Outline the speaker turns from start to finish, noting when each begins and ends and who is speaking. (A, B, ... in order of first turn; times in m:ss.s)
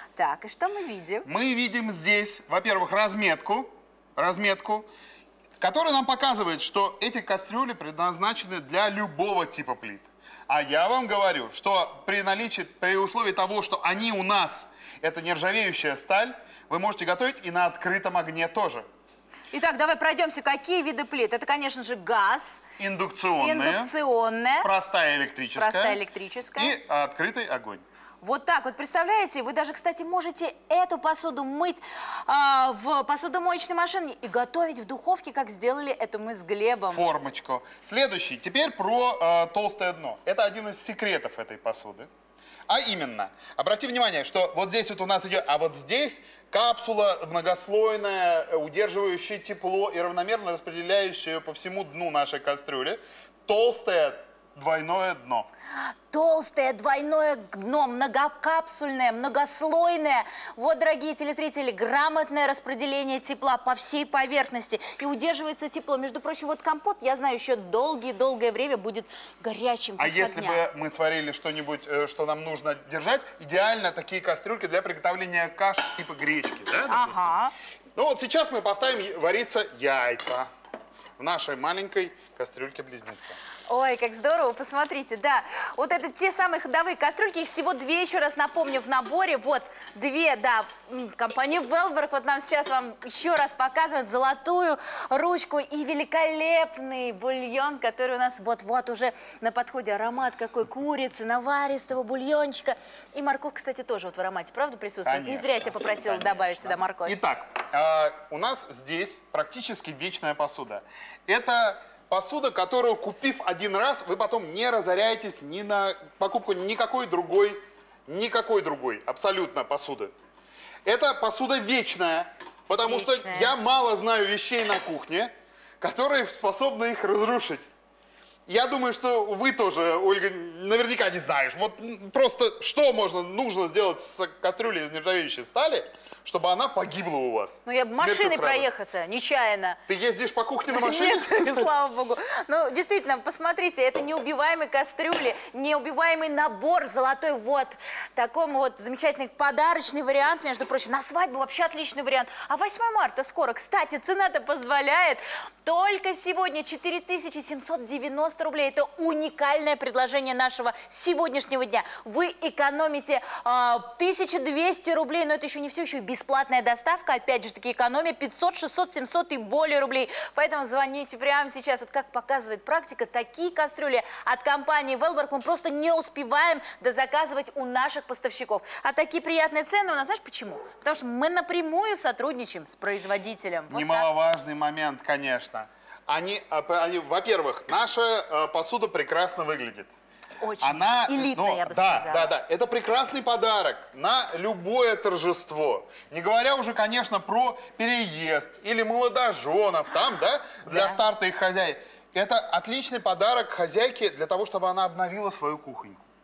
0:00.2-0:01.3 A
0:01.3-0:04.9 B
0:05.6-0:18.8 B
0:19.5-0:22.6 A
0:22.8-0:23.9 B
0:23.4-0:24.7 A
0:24.6-0:26.0 B
0:25.6-0:26.8 A
0:26.6-0:27.8 B
0:28.2-0:37.0 A
0:36.9-0:42.1 B
0:42.7-0:55.5 B
0:56.1-1:10.6 A
1:10.0-1:17.3 B
1:16.9-1:17.5 A
1:18.0-1:20.5 B
1:21.2-1:23.4 B
1:23.7-1:47.2 A
1:45.0-2:00.1 B
2:00.8-2:07.7 B
2:02.8-2:03.5 A
2:08.5-2:18.7 B
2:17.7-2:19.8 A
2:19.9-2:21.7 B
2:20.7-3:04.1 A
3:03.7-3:09.9 B
3:10.4-3:12.3 A
3:10.6-3:26.0 B
3:20.7-3:21.0 A